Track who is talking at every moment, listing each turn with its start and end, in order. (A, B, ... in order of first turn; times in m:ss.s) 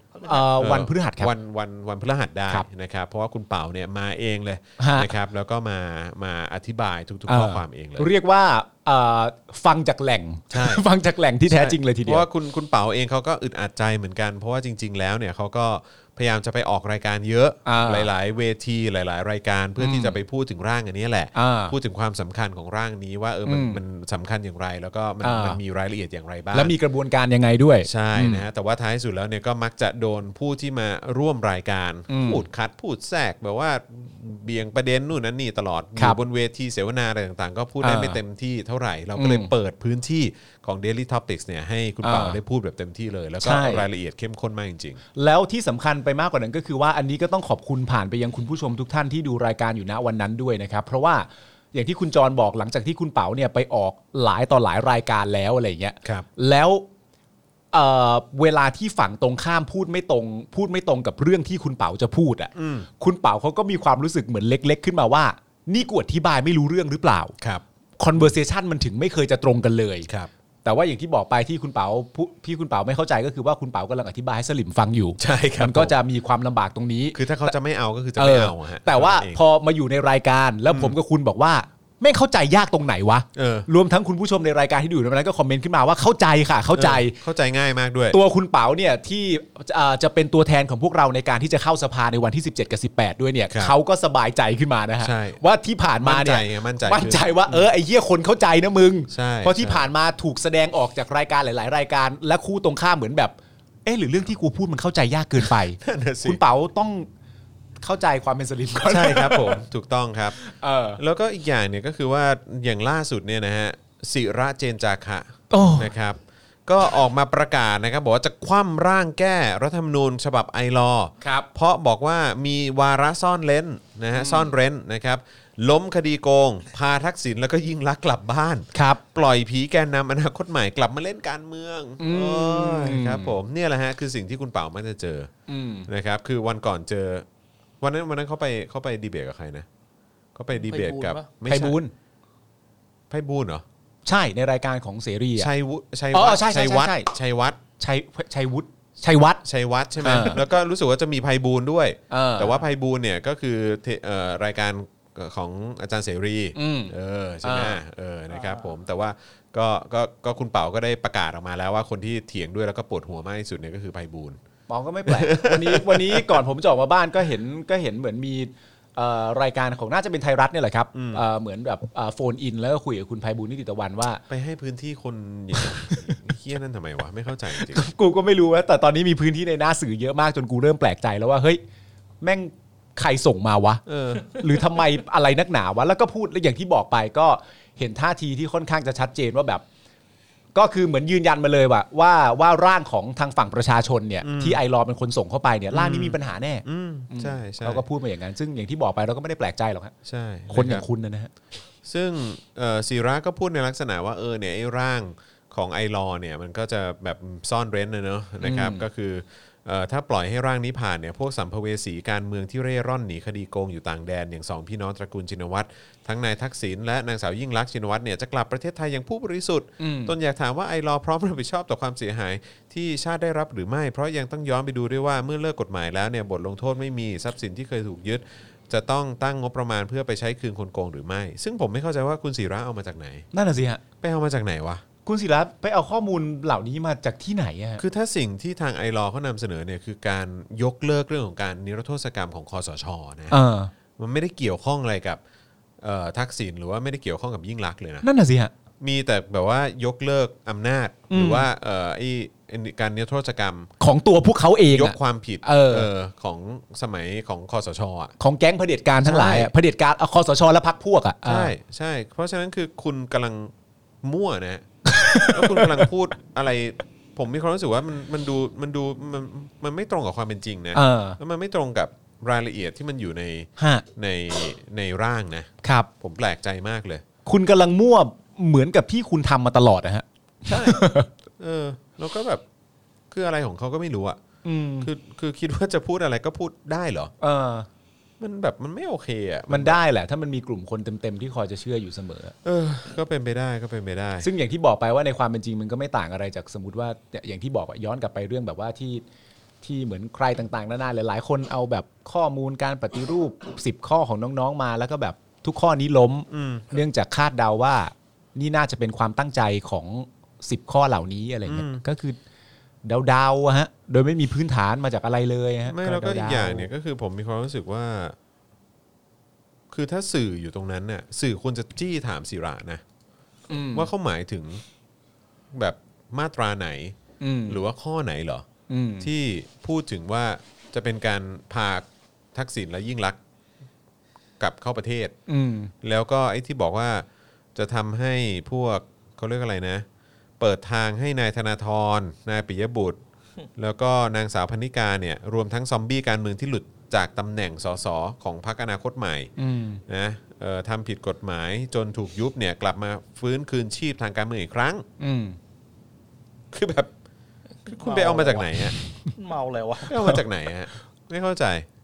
0:00.1-0:00.5 A
0:00.2-0:01.3 B
0:00.6-0:08.1 C
0:04.8-0:05.1 B
0:07.3-0:12.3 B
0:10.5-0:10.8 C
0:11.5-0:26.7 C
0:17.7-0:18.1 B
0:19.8-0:20.2 B
0:21.4-0:21.8 B
0:23.5-0:23.8 B
0:25.2-0:25.6 B
0:26.5-0:28.4 B
0:27.8-0:45.0 C
0:32.1-0:32.4 B
0:37.8-0:38.2 B
0:39.2-0:39.5 B
0:42.0-0:42.4 B
0:43.4-0:43.8 B
0:45.2-0:56.9 B
0:57.7-1:07.3 B
1:02.6-1:02.9 C
1:08.0-1:10.1 B
1:10.6-1:17.6 B
1:15.2-1:15.9 C
1:17.2-1:19.4 C
1:18.2-1:27.2 B
1:20.7-1:21.0 C
1:23.4-1:23.7 C
1:26.8-1:28.2 C
1:28.1-1:47.1 B
1:33.5-1:33.8 C
1:35.0-1:35.4 C
1:36.0-1:37.7 C
1:39.1-1:39.9 C
1:45.4-1:46.4 C
1:47.8-1:49.6 B
1:48.9-1:50.4 C
1:50.4-1:51.0 B
1:51.0-2:15.3 C
1:55.5-1:55.9 B
2:01.2-2:01.5 B
2:04.1-2:04.5 B
2:08.7-2:09.0 B
2:12.0-2:13.4 B
2:15.5-2:15.9 B
2:15.9-2:17.3 C
2:17.8-2:19.7 C
2:20.4-2:21.8 C
2:20.6-2:21.3 A
2:21.5-2:21.9 B
2:23.1-2:23.6 C
2:24.1-2:25.5 B
2:25.4-2:27.6 C
2:26.1-2:27.1 B
2:27.8-2:29.4 B
2:29.4-2:44.4 C
2:30.0-2:30.4 B
2:32.1-2:32.6 B
2:36.6-2:37.8 B
2:38.3-2:38.7 A
2:44.7-2:54.2 B
2:45.1-2:46.4 C
2:50.9-2:51.2 C
2:54.3-2:57.8 C
2:55.6-2:56.1 B
2:57.6-3:01.6 B
3:02.2-3:09.6 B
3:03.9-3:04.4 C
3:10.6-3:19.9 B
3:14.2-3:14.6 C
3:15.7-3:17.8 C
3:20.1-3:20.9 C
3:20.5-3:21.3 B
3:21.8-3:53.3 C
3:28.4-3:28.8 B
3:39.8-3:40.2 B
3:53.3-3:53.8 B
3:54.0-3:54.8 C
3:55.0-3:57.8 B
3:57.8-4:03.4 C
4:03.3-4:03.7 B
4:04.0-4:05.2 C
4:05.8-4:08.1 C
4:08.0-4:08.5 B
4:08.8-4:13.7 C
4:11.1-4:11.5 B
4:13.8-4:15.9 B
4:14.7-4:18.1 C
4:18.2-4:21.5 B
4:19.0-4:19.5 C
4:21.2-4:23.5 C
4:24.0-4:24.7 C
4:24.8-4:25.9 B
4:25.2-4:37.0 C
4:30.7-4:31.2 B
4:33.6-4:33.8 B
4:35.6-4:35.9 B
4:37.3-4:41.1 B
4:40.5-4:40.8 C
4:41.4-4:42.4 C
4:43.1-4:44.2 C
4:44.4-4:44.9 B
4:44.8-4:47.1 C
4:47.2-4:47.7 B
4:48.2-4:49.8 C
4:49.5-4:52.4 B
4:52.4-4:54.3 C
4:54.2-4:59.0 B
4:59.6-5:12.2 B
5:06.3-5:06.7 C
5:11.5-5:11.8 C
5:12.8-5:16.7 B
5:15.7-5:18.2 C
5:19.7-5:22.8 C
5:23.5-5:23.9 B
5:23.7-5:24.6 C
5:25.5-5:27.0 C
5:27.2-5:27.6 B
5:27.5-5:28.5 C
5:28.7-5:29.1 B
5:29.0-5:33.2 C
5:34.4-5:35.1 C
5:35.3-5:35.7 B
5:35.8-5:39.8 C
5:40.4-5:43.0 C
5:43.6-5:49.3 C
5:49.4-5:49.8 B
5:49.9-5:54.8 C
5:55.0-5:55.4 B
5:56.5-5:56.9 C
5:57.7-5:58.5 A
5:57.7-5:58.8 C
5:58.6-5:59.1 B
5:59.2-5:59.9 A
5:59.9-6:01.7 C
5:59.9-6:00.2 B